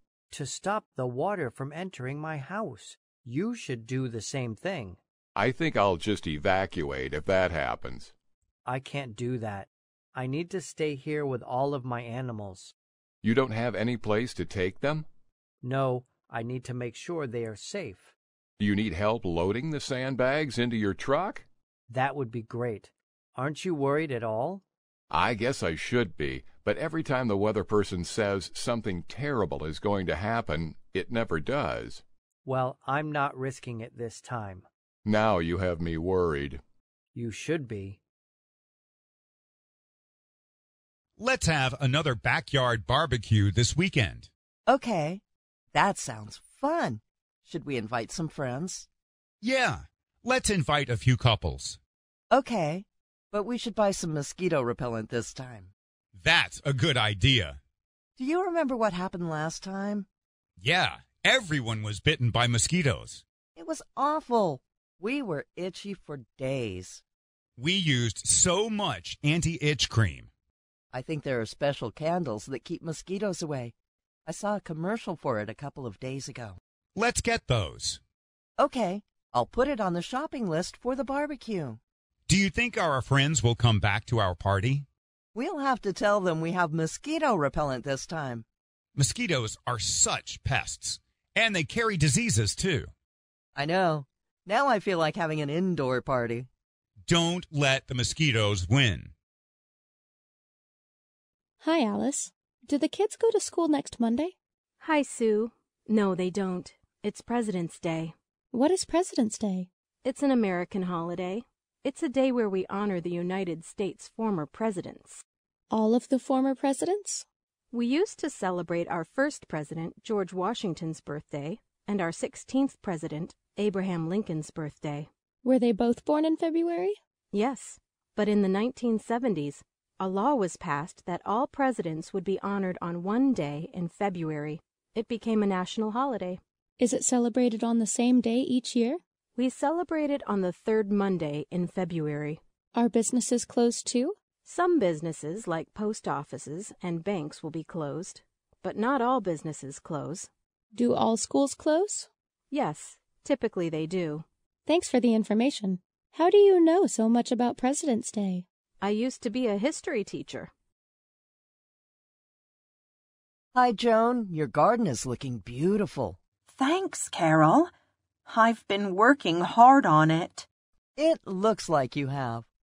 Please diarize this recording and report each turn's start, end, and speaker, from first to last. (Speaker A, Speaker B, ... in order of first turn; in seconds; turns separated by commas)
Speaker A: 0.3-5.0, Speaker B: 5.3-8.1, Speaker A: 8.7-12.7, Speaker B: 13.2-15.1, Speaker A: 15.6-18.1, Speaker B: 18.6-21.4, Speaker A: 21.9-24.6, Speaker B: 25.1-32.0, Speaker A: 32.4-34.7, Speaker B: 35.0-36.6, Speaker A: 37.1-38.0, Speaker C: 41.2-44.3, Speaker D: 44.7-45.2, Speaker D: 45.7-48.9, Speaker C: 49.4-51.8, Speaker D: 52.3-55.7, Speaker C: 56.1-57.6, Speaker D: 58.2-60.0, Speaker C: 60.6-63.2, Speaker D: 63.5-67.0, Speaker C: 67.6-70.3, Speaker D: 70.9-73.7, Speaker D: 74.2-76.6, Speaker C: 76.9-78.0, Speaker D: 78.6-81.8, Speaker C: 82.3-84.8, Speaker D: 85.3-88.4, Speaker C: 89.0-92.9, Speaker D: 93.5-96.5, Speaker C: 97.1-99.1, Speaker E: 101.6-104.3, Speaker F: 104.8-108.1, Speaker E: 108.5-109.7, Speaker F: 110.0-115.2, Speaker E: 115.7-117.2, Speaker F: 117.7-125.1, Speaker E: 125.4-127.0, Speaker F: 127.3-136.4, Speaker E: 136.8-139.0, Speaker F: 139.3-142.4, Speaker E: 142.7-144.2, Speaker F: 144.4-150.3, Speaker E: 150.7-152.1, Speaker F: 152.5-154.2, Speaker E: 154.7-158.4, Speaker F: 158.8-160.5, Speaker D: 163.5-166.2, Speaker G: 166.5-167.7, Speaker G: 168.3-170.5, Speaker D: 171.0-172.5